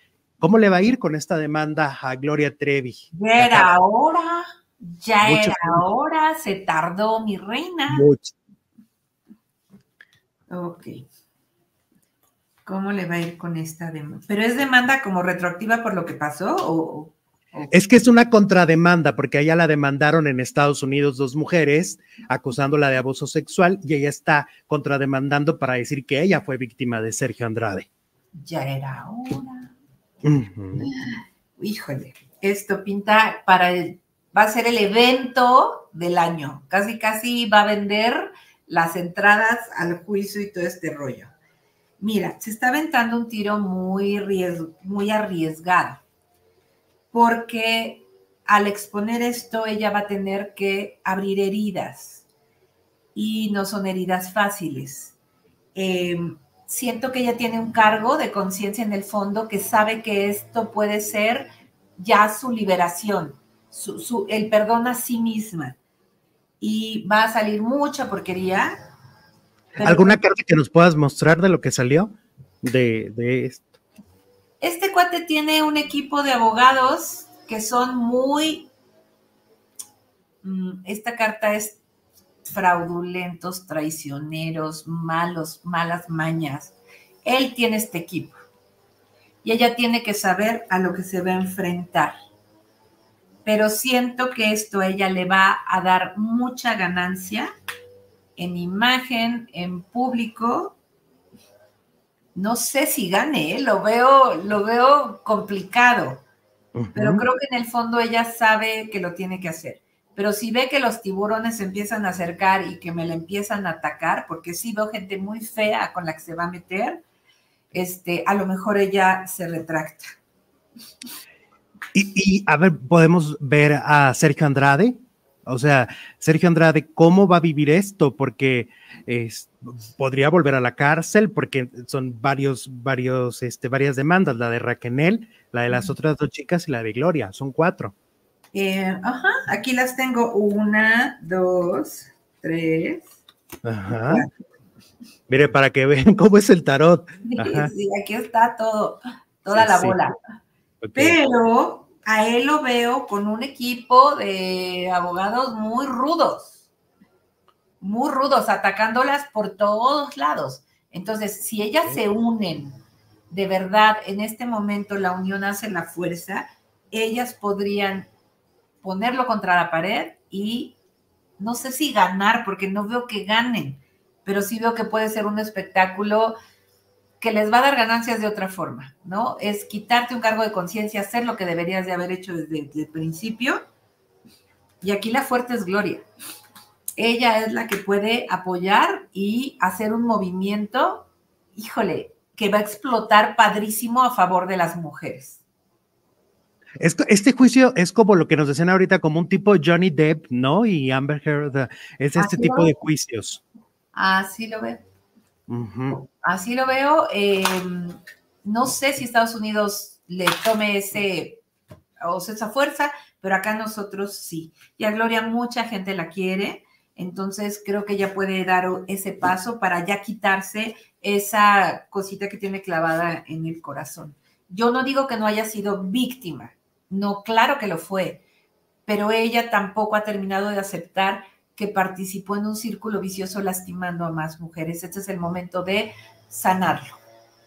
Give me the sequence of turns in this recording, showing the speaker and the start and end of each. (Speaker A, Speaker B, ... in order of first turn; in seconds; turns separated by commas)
Speaker A: 0.4-3.7, Speaker B: 3.1-8.1, Speaker A: 5.2-5.8, Speaker A: 7.9-8.3, Speaker B: 10.5-10.9, Speaker B: 12.6-17.8, Speaker A: 17.7-27.9, Speaker B: 28.4-29.7, Speaker A: 30.2-30.8, Speaker B: 30.8-41.3, Speaker B: 42.0-46.0, Speaker B: 47.1-52.3, Speaker B: 53.1-55.1, Speaker B: 55.7-65.8, Speaker B: 66.6-68.7, Speaker B: 69.7-70.2, Speaker A: 69.8-73.7, Speaker B: 74.6-78.7, Speaker B: 80.4-81.8, Speaker B: 82.5-88.4, Speaker B: 89.4-92.1, Speaker B: 93.4-97.5, Speaker B: 98.4-100.8, Speaker B: 102.3-106.2, Speaker A: 106.8-107.2, Speaker B: 106.9-117.0, Speaker B: 117.7-120.1, Speaker A: 121.9-137.9, Speaker B: 138.5-143.2, Speaker A: 143.6-144.2, Speaker A: 145.3-147.7, Speaker B: 147.3-150.2, Speaker A: 149.5-150.0, Speaker A: 150.8-151.2, Speaker B: 150.9-156.6, Speaker B: 157.8-168.1, Speaker B: 168.8-170.8, Speaker B: 171.4-176.3, Speaker B: 177.2-183.6, Speaker B: 184.8-186.1, Speaker B: 187.0-195.4, Speaker A: 196.8-203.4, Speaker B: 202.2-202.7, Speaker B: 203.9-204.8, Speaker A: 205.5-206.0, Speaker B: 205.9-211.4, Speaker B: 212.0-228.2, Speaker B: 228.9-237.0